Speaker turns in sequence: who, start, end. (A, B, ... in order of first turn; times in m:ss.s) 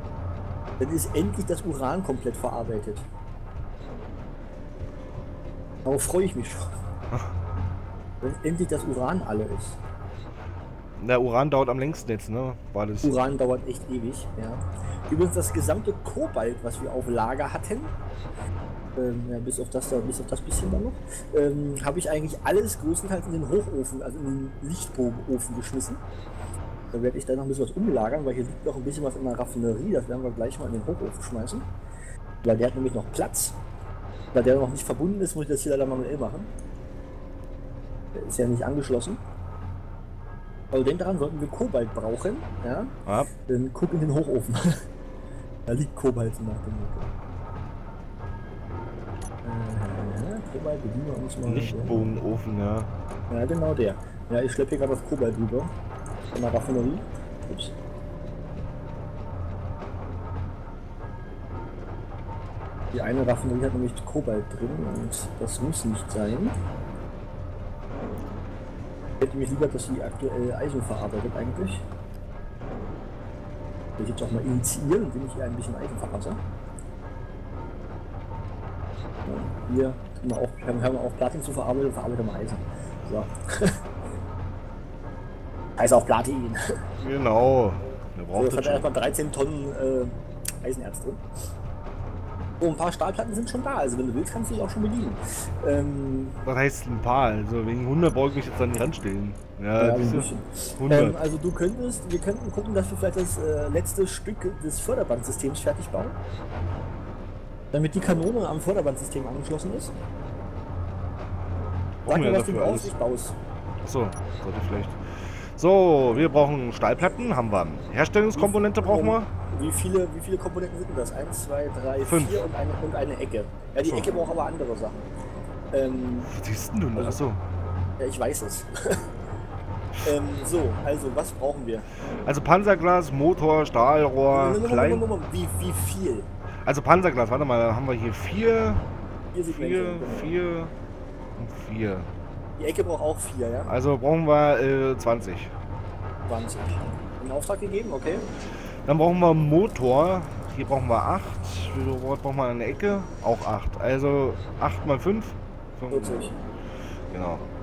0:00.8-0:03.1 A
0:05.8-0:06.7 A
0:08.2-0:09.8 A
0:11.0-0:13.1 B
0:13.0-0:17.9 A
0:19.0-0:26.0 A
0:26.9-0:31.6 A
0:32.4-0:33.6 A
0:34.3-0:36.5 A
0:38.1-0:39.2 A
0:40.7-0:42.9 A
0:43.5-0:44.7 A
0:45.7-0:47.1 A
0:49.4-0:52.0 A
0:51.5-0:52.9 B
0:53.3-0:55.7 A
0:56.3-0:57.7 A
1:02.9-1:06.5 A
1:09.2-1:11.8 A
1:14.0-1:16.4 A
1:19.2-1:23.8 A
1:25.8-1:26.6 A
1:27.0-1:28.9 B
1:28.3-1:31.2 A
1:32.6-1:36.4 A
1:36.4-1:40.3 B
1:39.8-1:46.2 A
1:40.8-1:41.2 B
1:47.7-1:49.9 A
1:52.0-1:53.0 B
1:52.1-1:53.4 A
1:53.8-1:59.3 B
1:58.3-2:05.1 A
2:02.0-2:02.4 B
2:03.8-2:04.1 B
2:05.7-2:06.3 A
2:06.3-2:07.4 B
2:07.0-2:07.2 A
2:08.0-2:09.0 A
2:10.0-2:11.9 A
2:12.2-2:15.0 B
2:14.3-2:16.3 A
2:16.6-2:18.8 B
2:19.3-2:20.4 A
2:19.5-2:20.7 B
2:21.4-2:22.1 B
2:22.6-2:23.7 A
2:23.7-2:25.5 B
2:26.3-2:28.2 A
2:28.8-2:36.2 B
2:35.9-2:36.4 A
2:37.1-2:37.4 B